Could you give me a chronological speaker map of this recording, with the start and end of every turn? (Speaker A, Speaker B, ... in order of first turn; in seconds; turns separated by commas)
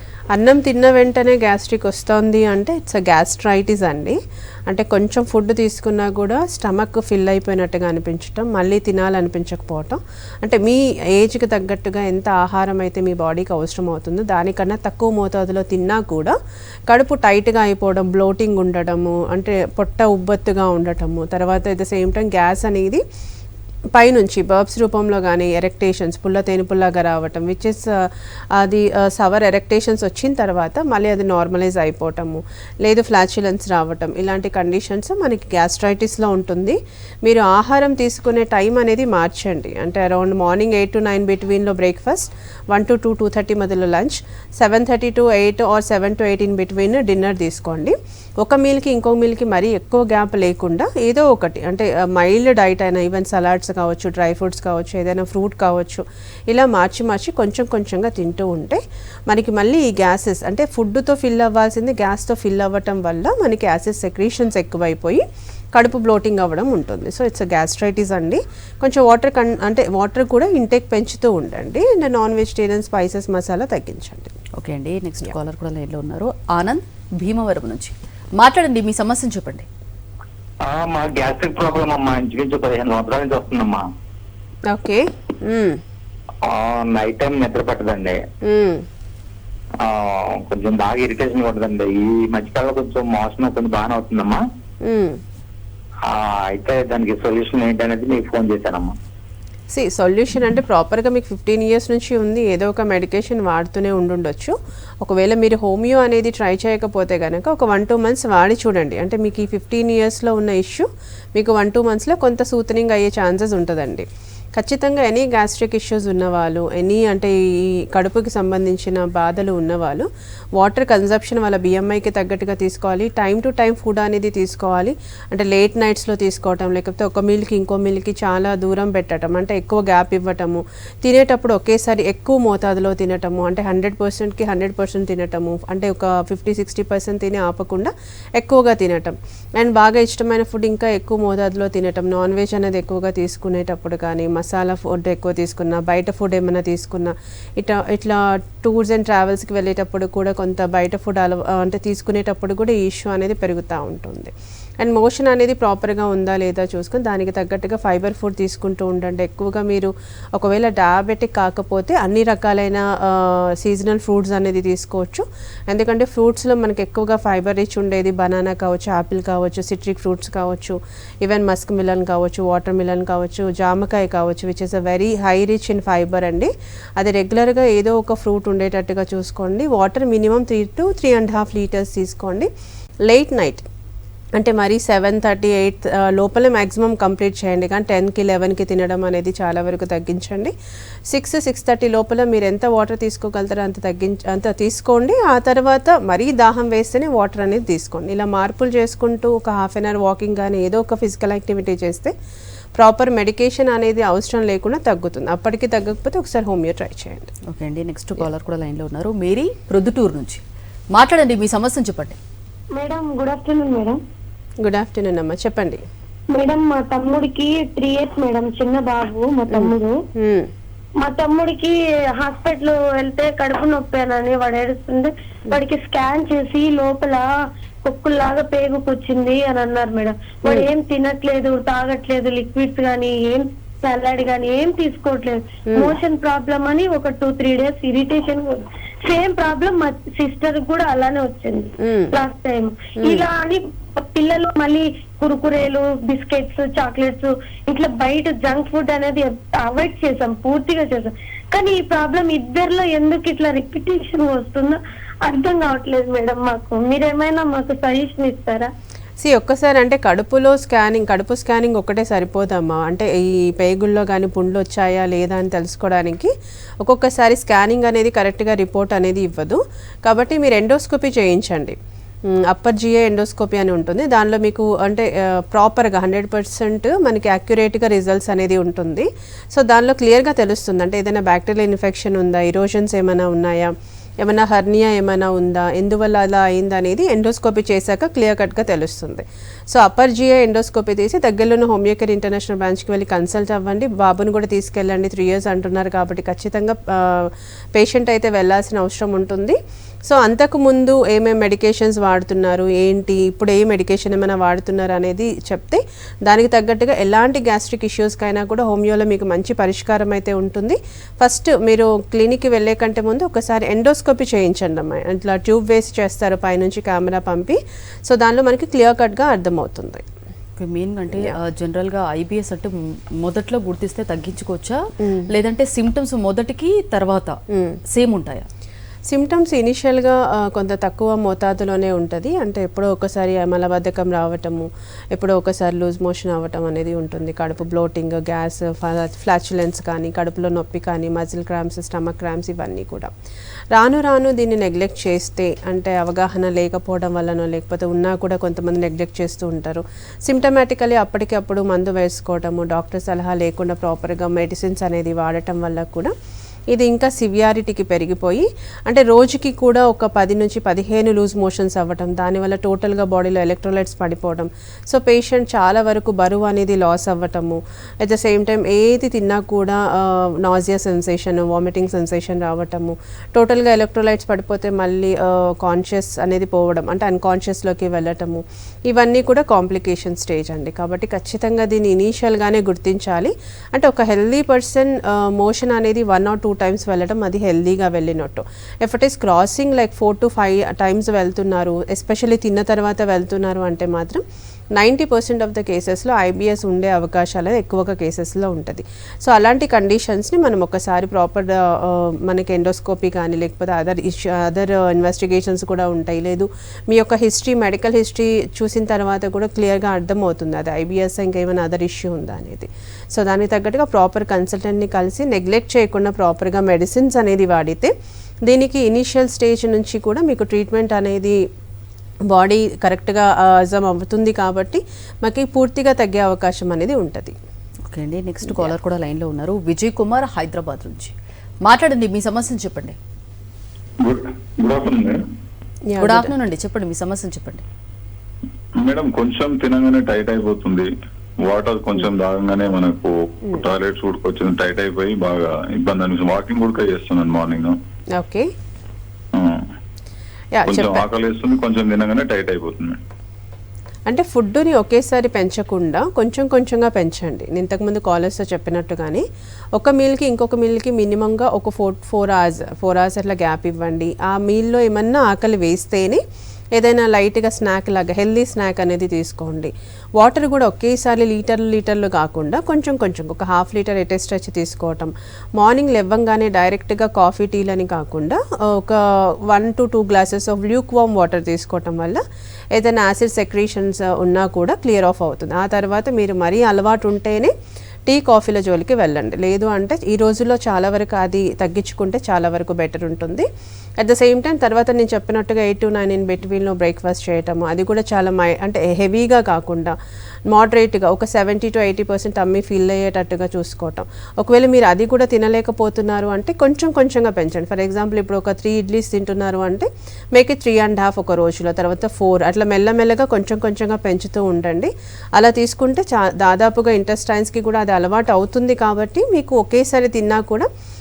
Speaker A: 0.3-16.3, Speaker A: 16.9-23.0, Speaker A: 24.0-65.2, Speaker A: 65.7-74.3, Speaker B: 74.6-79.7, Speaker C: 80.6-83.8, Speaker A: 84.7-85.8, Speaker C: 86.4-88.2, Speaker A: 88.5-88.8, Speaker C: 89.8-94.4, Speaker A: 94.8-95.2, Speaker C: 96.1-99.0, Speaker A: 99.7-182.5, Speaker A: 183.1-183.7, Speaker A: 184.4-190.5, Speaker A: 191.1-202.1, Speaker A: 202.8-207.3, Speaker B: 207.5-210.4, Speaker B: 210.9-212.2, Speaker D: 212.7-214.0, Speaker A: 214.6-215.8, Speaker D: 216.3-219.9, Speaker A: 219.5-220.5, Speaker D: 221.0-227.2, Speaker D: 227.8-258.7, Speaker A: 235.7-236.0, Speaker A: 241.8-242.1, Speaker A: 243.0-243.3, Speaker A: 259.2-266.3, Speaker A: 266.8-271.8, Speaker A: 272.3-320.0, Speaker B: 320.6-327.4, Speaker A: 325.0-325.3, Speaker A: 327.5-327.8, Speaker B: 327.9-328.5, Speaker A: 329.1-343.1, Speaker A: 343.8-356.1, Speaker A: 356.7-394.2, Speaker A: 394.8-417.9, Speaker A: 418.4-421.4, Speaker A: 422.3-427.3, Speaker B: 427.9-431.1, Speaker A: 428.4-428.7, Speaker B: 431.6-433.0, Speaker E: 434.0-435.2, Speaker A: 435.9-436.3, Speaker B: 436.0-437.6, Speaker E: 438.9-440.9, Speaker E: 441.4-447.8, Speaker A: 448.1-448.5, Speaker A: 450.5-451.0, Speaker E: 450.7-453.0, Speaker A: 454.1-459.2, Speaker A: 459.8-466.2, Speaker A: 466.8-482.2, Speaker A: 482.7-487.5, Speaker A: 488.1-493.4, Speaker A: 494.0-499.9, Speaker A: 500.5-520.7